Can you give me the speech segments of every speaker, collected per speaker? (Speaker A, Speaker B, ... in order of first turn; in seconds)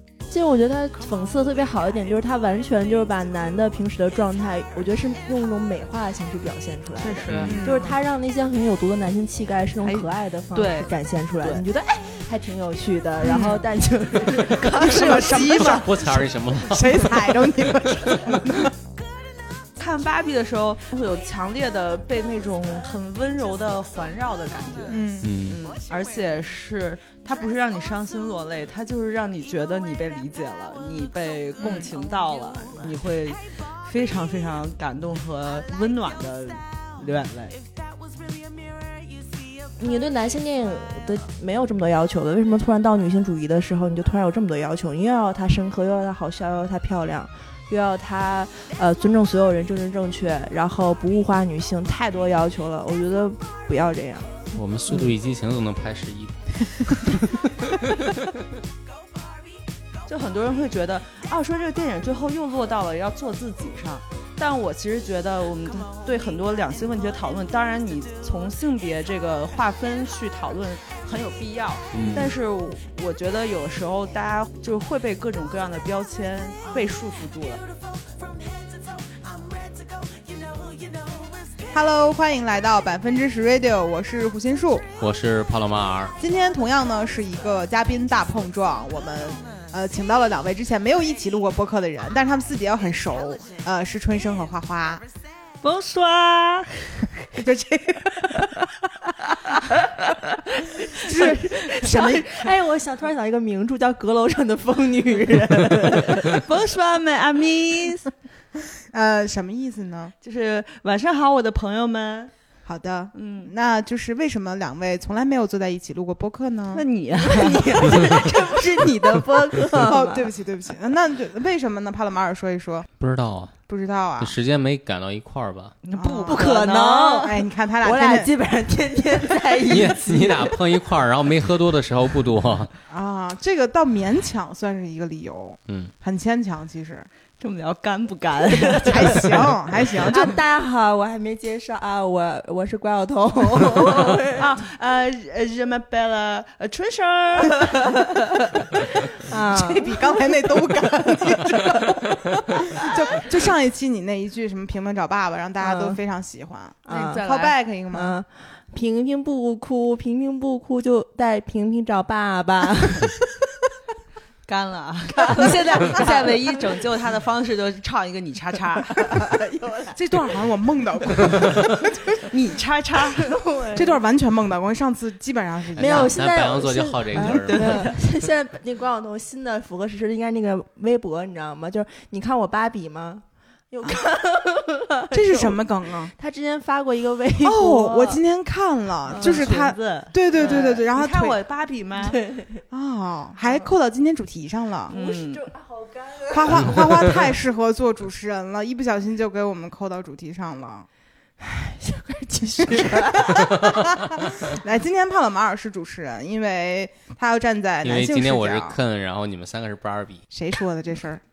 Speaker A: 0.3-15.8, 39.8-54.5, 101.0-106.5, 117.2-120.4, 126.0-130.6, 138.7-139.4, 140.1-144.6, 147.6-148.0, 149.2-150.8, 155.6-156.0, 156.9-157.2, 157.9-163.2, 165.2-166.5, 169.1-170.0, 173.2-174.0, 175.8-188.2, 189.1-189.6, 190.3-190.7, 192.0-192.6, 194.9-197.1, 201.4-204.0
Speaker B: 7.0-7.7, 9.8-11.6, 14.5-15.9, 19.8-37.6, 60.1-77.6, 95.6-97.1, 106.2-108.1, 110.2-112.3, 113.1-113.5, 116.7-118.3, 125.8-127.3, 137.4-139.5, 143.8-147.9, 156.9-157.6, 164.5-169.3, 172.3-173.4, 177.2-178.0, 189.2-192.2, 194.9-195.5
Speaker C: 7.3-7.5, 15.7-17.5, 25.2-25.6, 54.5-58.1, 71.9-72.3, 85.0-86.2, 123.0-123.6, 124.2-125.8, 129.7-132.7, 175.8-177.9, 207.8-210.2
Speaker D: 7.5-8.0, 13.2-13.7, 14.7-18.7, 24.9-25.3, 31.6-31.9, 81.7-84.9, 86.2-95.0, 97.3-98.5, 100.9-102.3, 108.9-110.1, 112.7-116.8, 118.0-122.9, 123.7-124.3, 126.0-126.5, 127.2-128.3, 132.9-137.1, 138.9-140.4, 149.5-158.1, 169.9-172.3, 173.7-176.2, 185.1-186.1, 187.4-191.4, 192.7-194.9, 196.3-200.9, 202.6-208.8, 210.3-211.2